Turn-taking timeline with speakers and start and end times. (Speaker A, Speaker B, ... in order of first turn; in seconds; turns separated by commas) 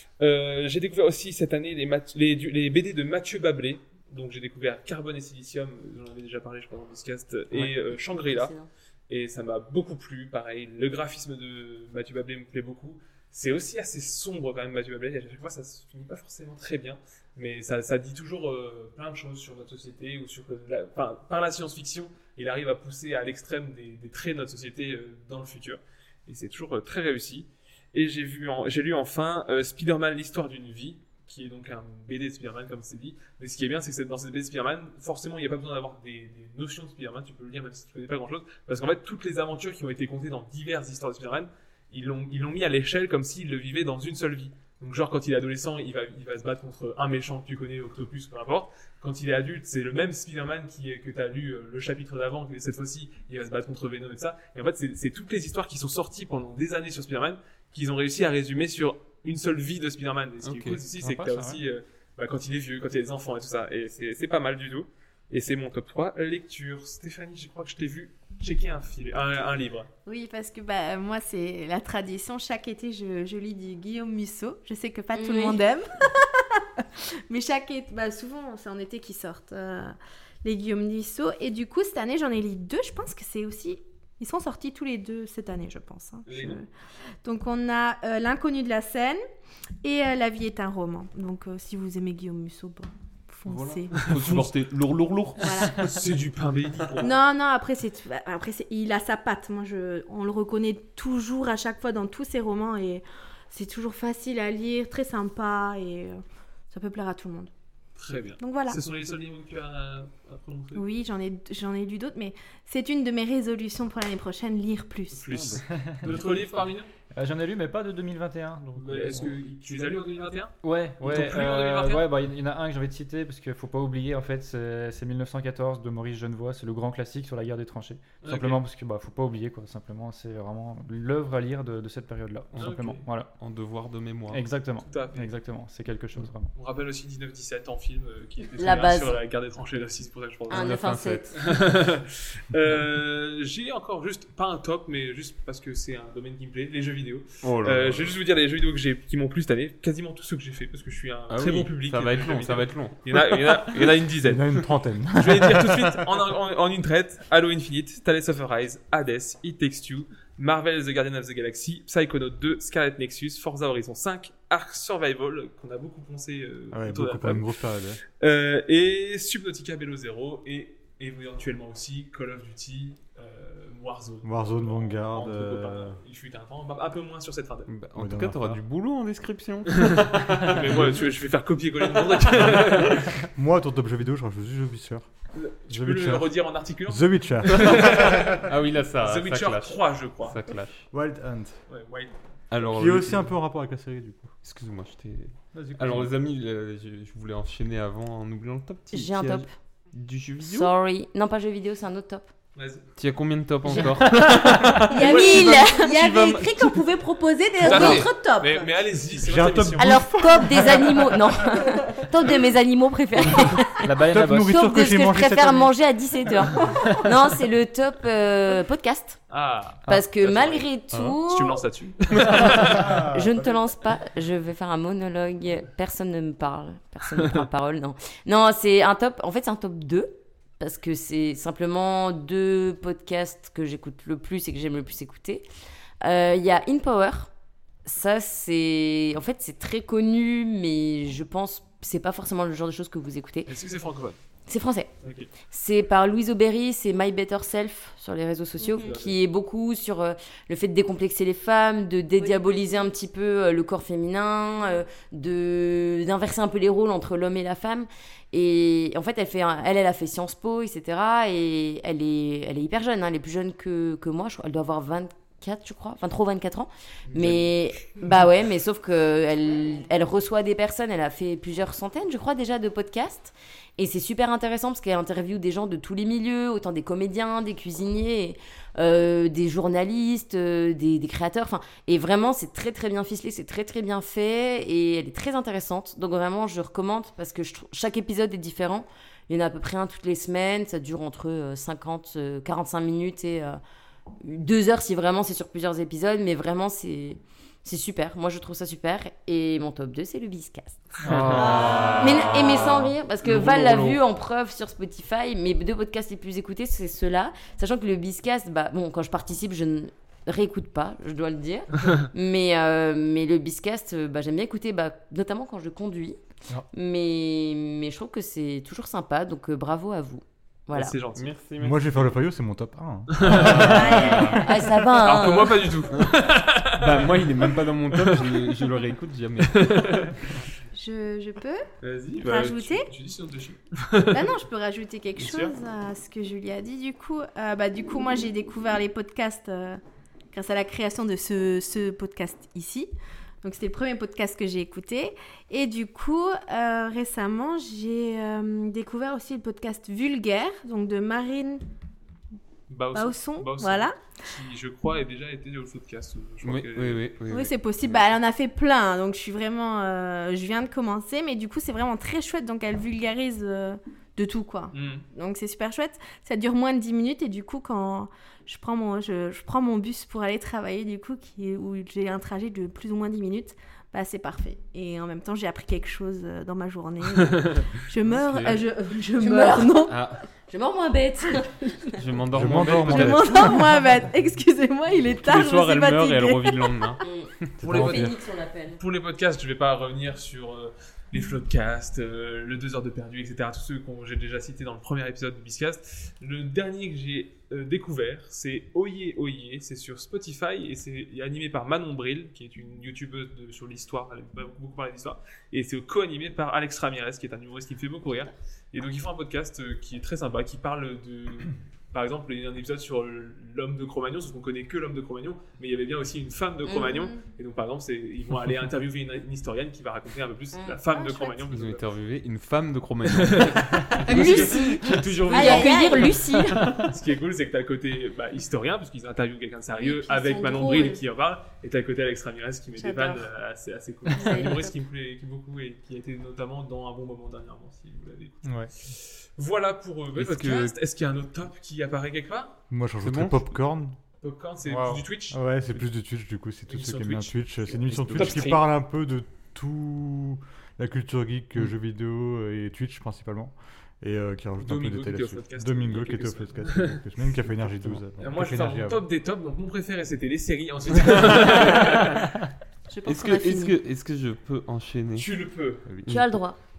Speaker A: 0.2-8.5, Speaker B: 7.8-8.7, Speaker A: 9.1-69.9, Speaker C: 60.4-60.8, Speaker D: 61.0-61.6, Speaker E: 70.0-86.7, Speaker B: 75.1-75.6, Speaker A: 86.3-86.6, Speaker E: 87.2-89.2, Speaker E: 89.8-94.1, Speaker C: 93.5-95.7, Speaker A: 93.9-94.5, Speaker E: 95.4-95.8, Speaker A: 95.7-97.1, Speaker E: 97.0-107.5, Speaker A: 108.0-110.8, Speaker E: 108.4-108.8, Speaker E: 110.7-115.4, Speaker A: 115.1-116.9, Speaker D: 115.3-116.1, Speaker D: 117.1-119.3, Speaker A: 118.7-122.0, Speaker D: 120.6-133.3, Speaker A: 128.2-128.6, Speaker C: 132.5-132.8, Speaker A: 132.6-133.0, Speaker C: 133.4-134.4, Speaker D: 134.3-136.5, Speaker A: 134.8-135.3, Speaker A: 136.5-140.8, Speaker B: 138.6-139.2, Speaker B: 140.5-141.3, Speaker C: 140.5-141.4, Speaker A: 141.3-154.4, Speaker C: 147.4-148.2, Speaker C: 151.3-153.8, Speaker F: 154.2-156.0, Speaker A: 155.2-167.5, Speaker F: 166.7-168.0, Speaker A: 168.2-177.7, Speaker F: 174.2-176.0, Speaker C: 177.7-181.0, Speaker F: 177.9-178.6, Speaker A: 179.8-183.1, Speaker F: 183.3-185.1, Speaker A: 185.3-188.4, Speaker F: 185.7-186.3, Speaker F: 186.9-188.2, Speaker C: 188.4-190.8, Speaker A: 189.0-190.4, Speaker F: 190.9-191.6, Speaker A: 191.7-192.1, Speaker C: 192.5-193.3, Speaker F: 192.7-194.3, Speaker C: 194.4-200.7, Speaker F: 195.5-196.1, Speaker B: 198.9-199.5, Speaker B: 200.4-202.3, Speaker A: 202.6-202.8, Speaker C: 203.0-206.8, Speaker A: 203.8-204.4, Speaker E: 204.9-208.7, Speaker A: 204.9-205.6, Speaker B: 205.2-205.9, Speaker A: 207.6-210.1, Speaker F: 209.2-211.2, Speaker B: 209.8-213.9, Speaker D: 213.8-214.6, Speaker F: 213.9-215.7, Speaker B: 214.4-219.2, Speaker A: 219.3-220.7, Speaker B: 219.9-221.6, Speaker C: 220.9-221.2, Speaker A: 221.2-223.0, Speaker F: 222.7-223.2, Speaker B: 223.1-235.4, Speaker B: 236.0-237.3, Speaker B: 237.8-243.5, Speaker A: 243.5-244.2, Speaker B: 244.5-293.6, Speaker A: 245.0-245.3, Speaker E: 248.6-248.9, Speaker A: 248.8-249.2, Speaker E: 252.2-252.8, Speaker A: 267.1-267.5, Speaker B: 294.2-300.9, Speaker D: 301.0-301.6, Speaker C: 301.1-304.0, Speaker E: 301.5-301.8, Speaker B: 302.0-316.2, Speaker B: 316.7-321.0, Speaker A: 320.7-321.3, Speaker C: 321.1-322.1, Speaker F: 321.6-324.3, Speaker A: 323.1-324.3, Speaker C: 323.3-324.4, Speaker E: 323.6-324.4, Speaker B: 324.4-325.7, Speaker A: 324.9-328.5, Speaker C: 326.8-330.0, Speaker A: 329.5-330.1, Speaker E: 330.7-331.6, Speaker A: 331.8-334.2, Speaker E: 332.2-332.9, Speaker E: 334.1-339.8, Speaker A: 335.2-335.5, Speaker E: 340.3-342.9, Speaker E: 343.4-351.6, Speaker A: 352.7-357.0, Speaker E: 352.9-354.0, Speaker C: 356.4-358.1, Speaker E: 357.3-379.9, Speaker A: 364.7-365.0, Speaker C: 378.1-378.6, Speaker B: 379.2-379.8, Speaker C: 379.9-380.2, Speaker B: 380.5-382.0, Speaker C: 382.0-383.6, Speaker F: 382.3-383.7, Speaker E: 382.9-386.8, Speaker C: 385.2-387.0, Speaker B: 387.0-388.8, Speaker F: 387.6-388.1, Speaker A: 387.6-388.1, Speaker A: 388.8-421.8, Speaker B: 416.6-417.1, Speaker E: 416.7-417.2, Speaker B: 420.5-420.8, Speaker E: 420.9-421.5, Speaker C: 421.5-425.6, Speaker A: 423.1-426.0, Speaker B: 424.0-426.7, Speaker E: 425.3-426.2, Speaker A: 426.7-442.5, Speaker E: 429.8-431.0, Speaker E: 432.7-433.3, Speaker E: 434.1-434.7, Speaker F: 438.4-438.7, Speaker C: 440.1-440.7, Speaker F: 442.7-443.9, Speaker C: 443.0-443.5, Speaker A: 444.2-445.5, Speaker D: 444.6-445.0, Speaker F: 445.3-459.0, Speaker A: 446.7-448.6, Speaker C: 447.9-448.5, Speaker A: 454.6-457.0, Speaker A: 458.2-462.3, Speaker C: 461.0-462.0, Speaker B: 462.9-463.8, Speaker C: 463.0-465.3, Speaker A: 465.1-465.8, Speaker F: 465.9-466.2, Speaker C: 466.1-466.3, Speaker B: 466.1-466.6